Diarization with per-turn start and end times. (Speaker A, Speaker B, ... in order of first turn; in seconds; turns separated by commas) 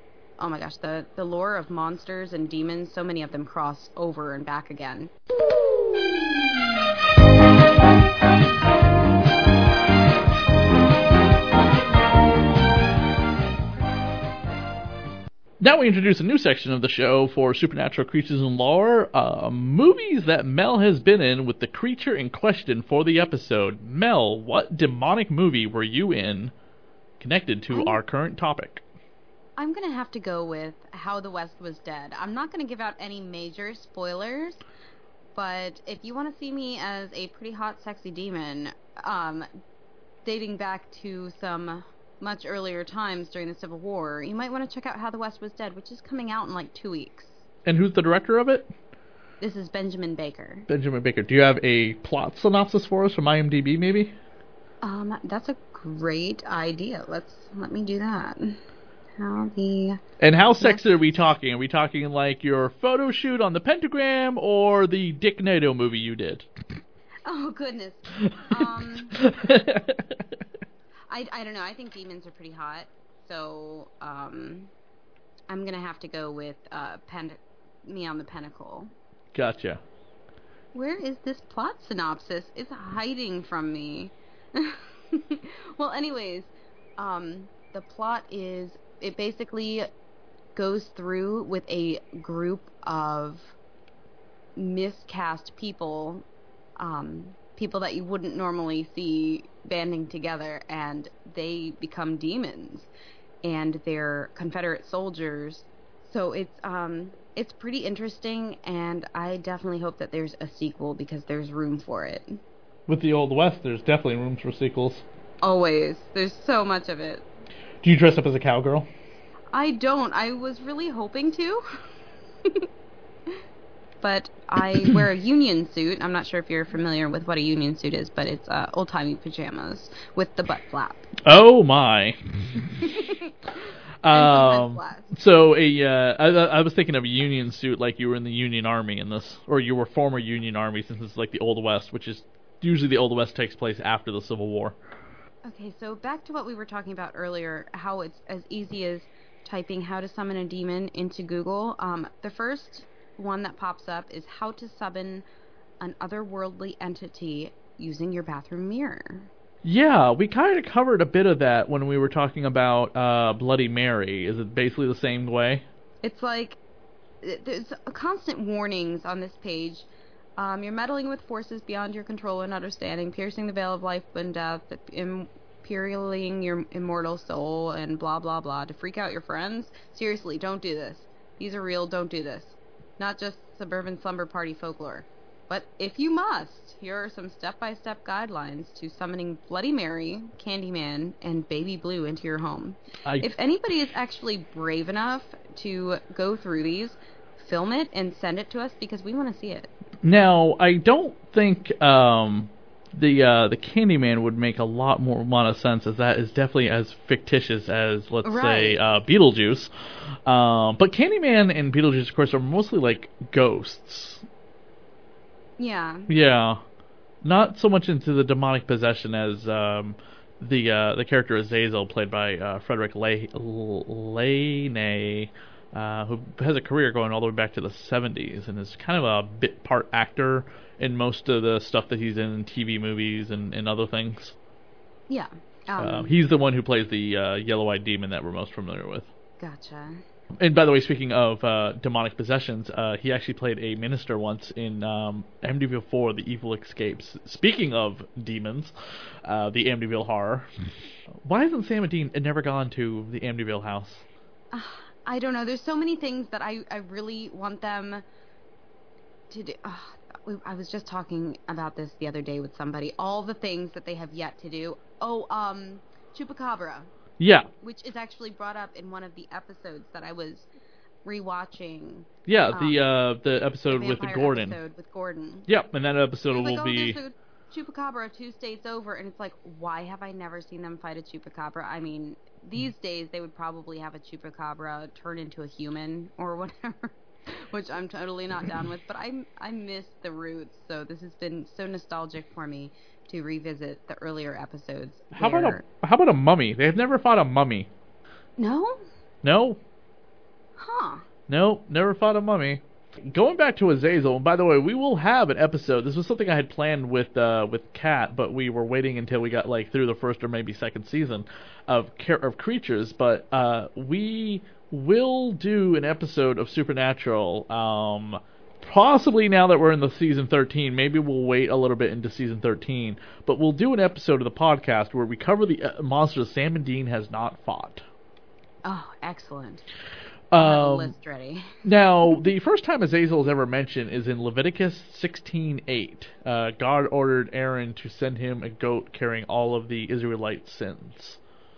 Speaker A: 0.4-5.1, Speaker B: 15.6-26.5, Speaker B: 27.2-28.8, Speaker A: 27.7-28.0, Speaker A: 29.6-34.6, Speaker A: 35.3-39.5, Speaker A: 40.2-47.5, Speaker B: 47.6-48.7, Speaker A: 49.4-50.7, Speaker B: 50.7-54.1, Speaker A: 54.8-58.6, Speaker A: 59.2-60.0, Speaker B: 60.2-66.5, Speaker A: 67.2-69.2, Speaker B: 68.2-70.0, Speaker A: 71.1-74.7, Speaker A: 75.5-78.9, Speaker B: 79.3-79.8, Speaker A: 80.7-89.9, Speaker A: 90.5-93.5, Speaker A: 94.5-96.3, Speaker A: 96.8-102.9, Speaker A: 103.4-112.4, Speaker B: 112.9-115.0, Speaker A: 115.4-117.2, Speaker B: 117.8-118.9, Speaker A: 119.5-121.6, Speaker A: 124.0-131.1, Speaker B: 131.2-132.7, Speaker A: 132.7-133.3, Speaker B: 134.0-144.8, Speaker A: 134.1-135.1, Speaker A: 145.4-155.2, Speaker A: 155.8-159.3, Speaker B: 159.6-165.7, Speaker A: 166.0-166.6, Speaker A: 167.2-199.7, Speaker B: 193.0-193.3, Speaker B: 200.0-209.7, Speaker A: 208.2-208.8, Speaker B: 210.2-214.2, Speaker A: 215.6-216.1, Speaker B: 216.1-216.6, Speaker B: 217.2-234.3, Speaker A: 235.1-236.2, Speaker B: 235.8-239.1, Speaker A: 239.4-240.0, Speaker B: 240.3-248.7, Speaker B: 249.2-250.5, Speaker B: 251.2-254.0, Speaker A: 254.5-258.0, Speaker A: 259.3-266.9, Speaker B: 267.2-267.5, Speaker A: 267.6-270.5, Speaker A: 271.0-272.8, Speaker B: 272.2-274.6, Speaker A: 273.7-275.5, Speaker B: 275.5-277.0, Speaker A: 276.3-295.6, Speaker B: 295.1-297.7, Speaker A: 298.4-298.8, Speaker B: 299.2-299.6, Speaker A: 300.6-301.0, Speaker B: 301.3-327.8, Speaker A: 328.6-329.6, Speaker B: 330.3-330.9, Speaker A: 330.4-331.5, Speaker B: 331.6-341.2